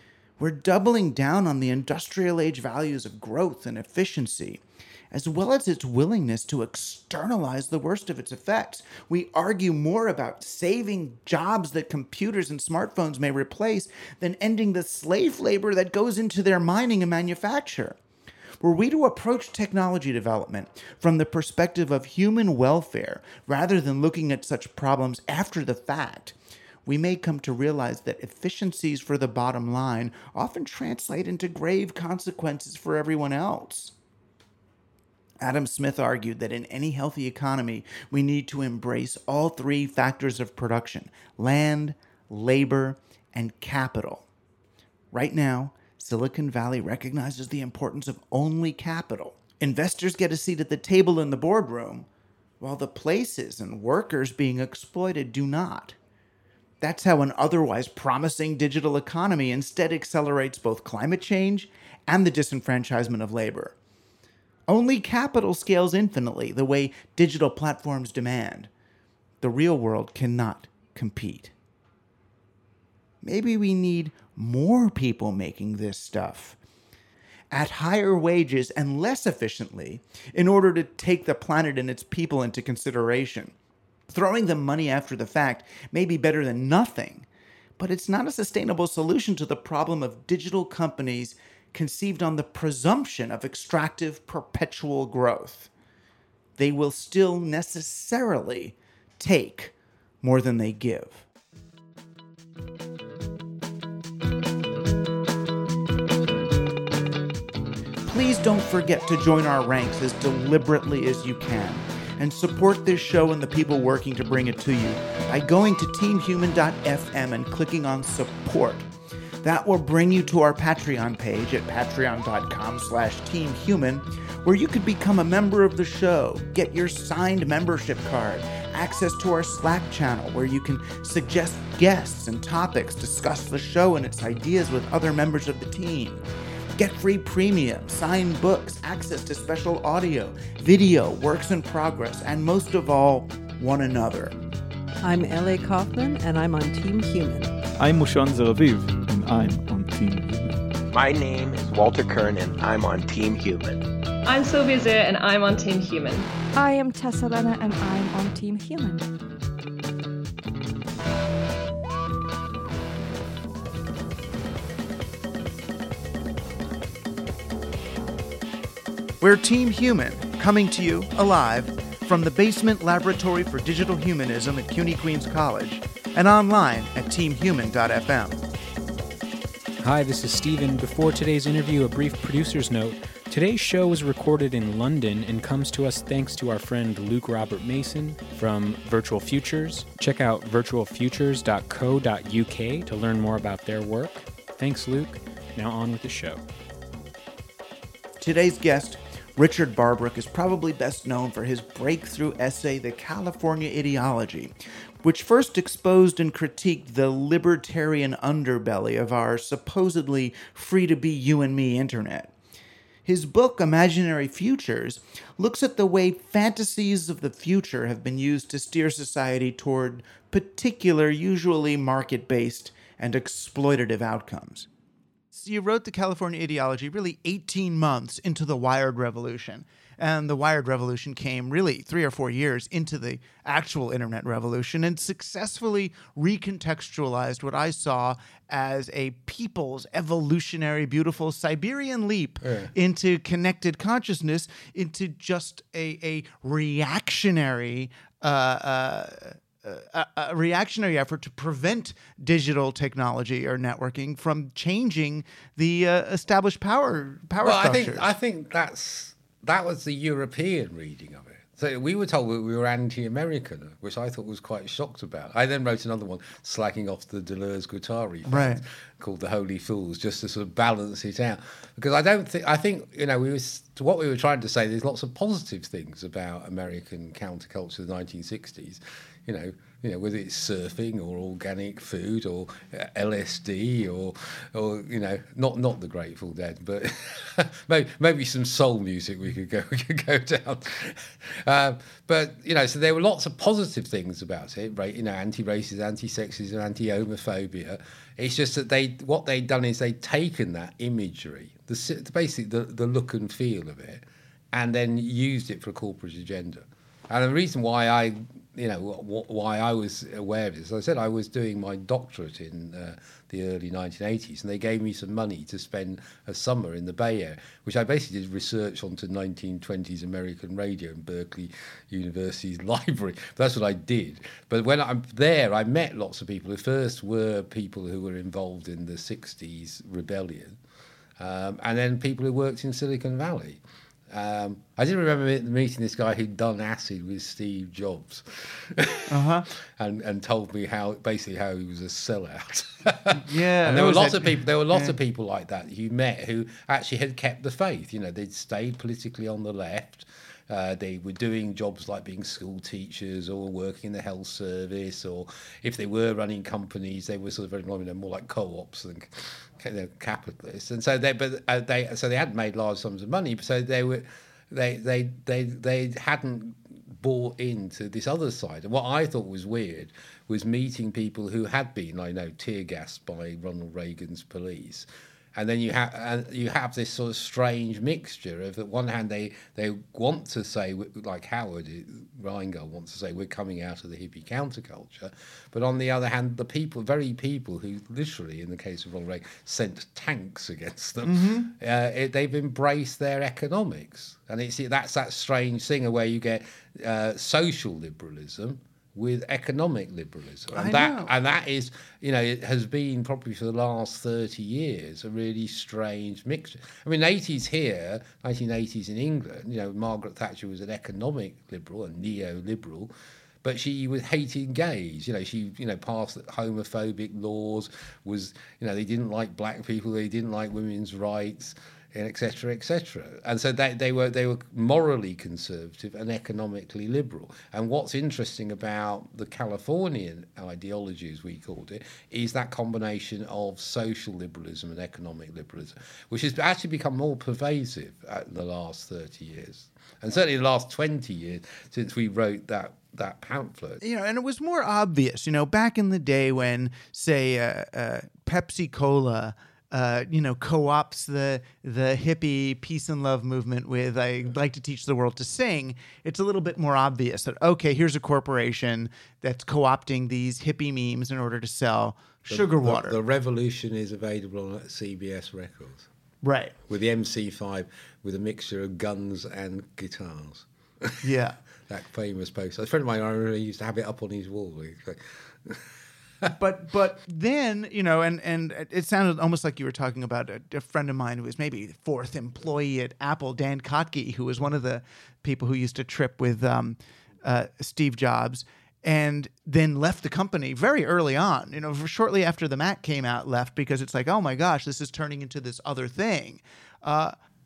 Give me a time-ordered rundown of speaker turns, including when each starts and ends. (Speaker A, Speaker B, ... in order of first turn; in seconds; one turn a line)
Speaker A: 0.4-4.6
Speaker A: 5.1-18.0
Speaker A: 18.6-26.3
Speaker A: 26.9-33.9
Speaker A: 35.4-44.3
Speaker A: 45.1-52.1
Speaker A: 52.6-56.0
Speaker A: 56.8-63.8
Speaker A: 64.7-68.7
Speaker A: 69.4-71.5
Speaker A: 73.2-76.6
Speaker A: 77.5-83.5
Speaker A: 84.1-87.3
Speaker A: 87.8-95.7
Speaker A: 96.6-101.2
Speaker A: 108.0-118.9
Speaker A: 119.4-136.2
Speaker A: 136.8-144.4
Speaker B: 145.0-147.6
Speaker C: 147.8-150.6
Speaker D: 150.9-153.8
Speaker E: 154.2-156.3
Speaker F: 156.5-159.1
Speaker A: 169.2-178.4
Speaker G: 179.8-196.4
Speaker A: 198.2-212.3
Speaker A: 213.0-224.7
Speaker A: 225.3-258.1
Speaker H: 242.4-242.7
Speaker H: 257.4-330.6
Speaker A: 268.2-268.6
Speaker H: 331.2-412.9
Speaker A: 339.1-339.5
Speaker A: 343.1-344.9
Speaker A: 391.0-391.5
Speaker A: 400.5-401.1
Speaker H: 413.4-443.8
Speaker A: 443.8-463.0
Speaker H: 462.3-465.9
Speaker A: 466.2-466.5
Speaker H: 466.7-471.0
Speaker A: 471.0-471.4
Speaker H: 471.7-475.7
Speaker A: 476.4-497.1